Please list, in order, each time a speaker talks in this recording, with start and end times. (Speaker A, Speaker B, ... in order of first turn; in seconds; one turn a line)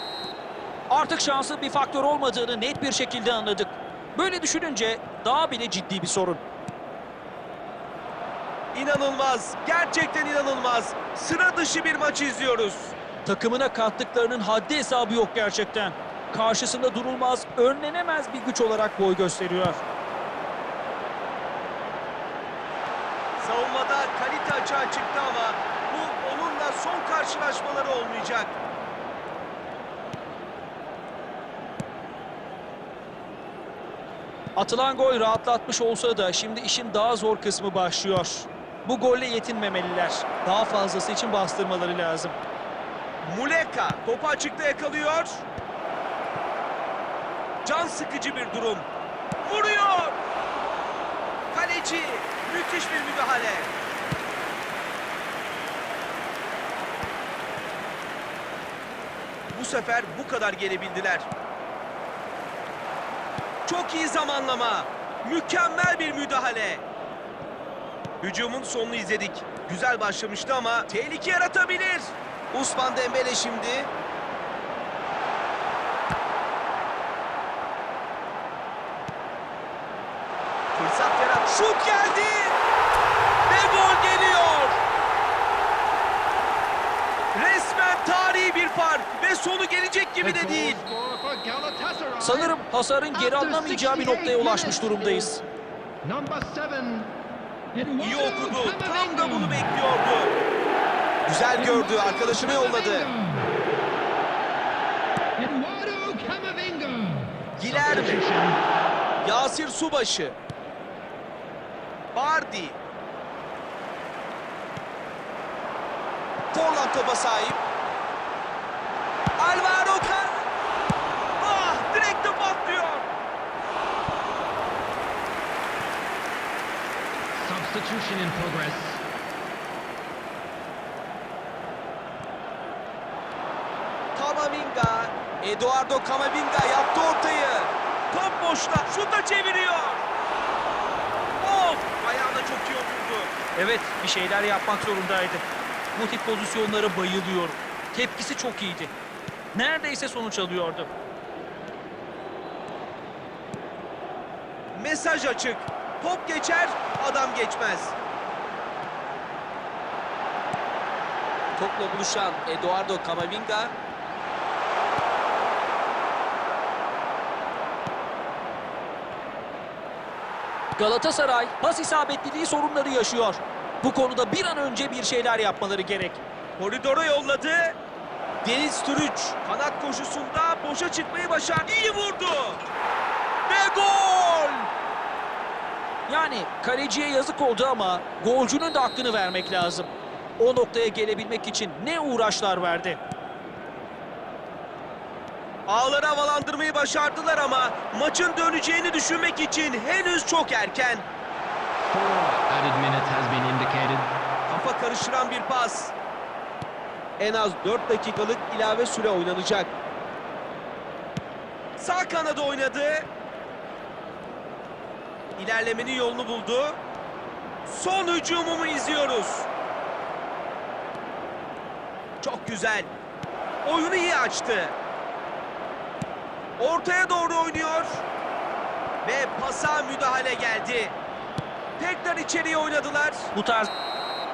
Speaker A: 0.9-6.4
Speaker B: 8.7-12.9
Speaker A: 13.2-19.8
Speaker B: 23.4-28.5
Speaker A: 34.5-42.4
Speaker B: 43.2-45.4
Speaker B: 47.6-48.9
Speaker B: 49.4-50.1
Speaker B: 51.5-53.7
Speaker B: 59.5-61.3
Speaker B: 63.7-66.8
Speaker B: 68.2-73.9
Speaker B: 80.7-82.6
Speaker B: 83.5-84.8
Speaker B: 87.3-90.8
Speaker C: 90.2-92.5
Speaker A: 92.2-95.4
Speaker C: 93.2-95.1
Speaker C: 96.0-97.1
Speaker C: 97.8-99.5
Speaker B: 98.0-100.3
Speaker B: 101.2-103.1
Speaker C: 101.6-103.2
Speaker C: 105.4-106.2
Speaker B: 107.6-108.2
Speaker C: 107.6-108.5
Speaker B: 109.2-110.3
Speaker B: 112.1-112.8
Speaker B: 116.5-117.6
Speaker B: 119.4-120.4
Speaker B: 121.4-123.0
Speaker C: 127.3-129.0
Speaker B: 134.2-140.0
Speaker B: 141.4-143.3
Speaker A: 143.6-148.9
Speaker A: 149.5-150.9
Speaker B: 154.7-157.9
Speaker B: 161.6-163.7
Speaker A: 170.8-176.2
Speaker B: 176.6-177.7
Speaker B: 178.4-182.6
Speaker B: 183.5-184.7
Speaker A: 186.1-193.0
Speaker B: 195.7-201.1
Speaker C: 201.9-204.1
Speaker B: 204.5-205.9
Speaker B: 207.2-209.7
Speaker B: 211.8-213.1
Speaker B: 215.4-216.8
Speaker B: 217.7-219.5
Speaker B: 222.2-222.9
Speaker B: 223.6-224.8
Speaker B: 226.6-228.0
Speaker B: 229.0-230.9
Speaker B: 231.8-233.3
Speaker A: 233.3-233.7